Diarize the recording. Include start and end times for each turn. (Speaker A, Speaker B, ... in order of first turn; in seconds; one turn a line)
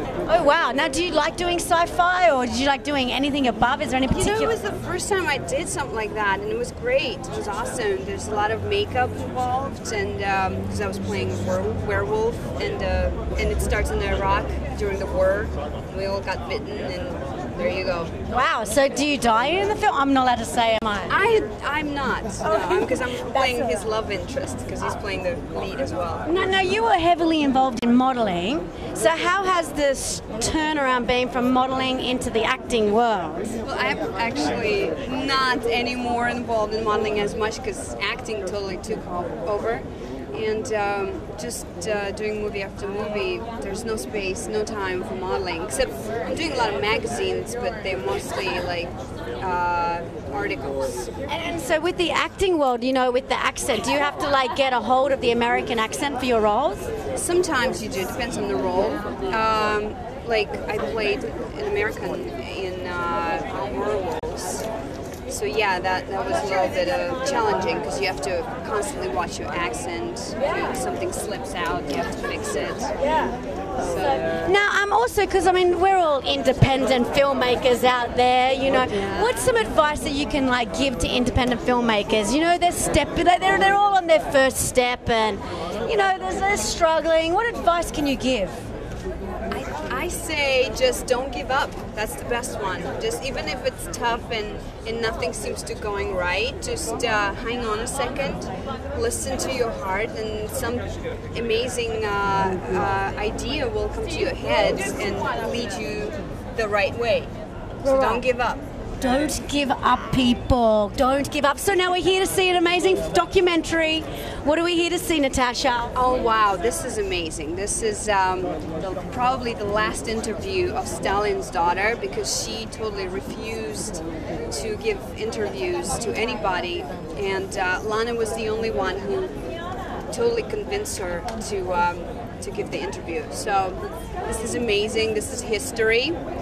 Speaker A: 0.3-4.5
Speaker B: 4.1-18.1
Speaker A: 18.3-21.1
Speaker B: 21.1-26.3
Speaker A: 22.4-23.8
Speaker A: 26.2-33.5
Speaker B: 33.6-51.1
Speaker A: 51.3-56.9
Speaker B: 57.1-64.7
Speaker B: 65.3-72.9
Speaker B: 73.8-74.5
Speaker A: 74.3-88.6
Speaker B: 89.5-107.3
Speaker B: 107.8-108.6
Speaker A: 107.8-108.2
Speaker A: 109.0-115.9
Speaker B: 115.9-129.3
Speaker B: 130.1-136.2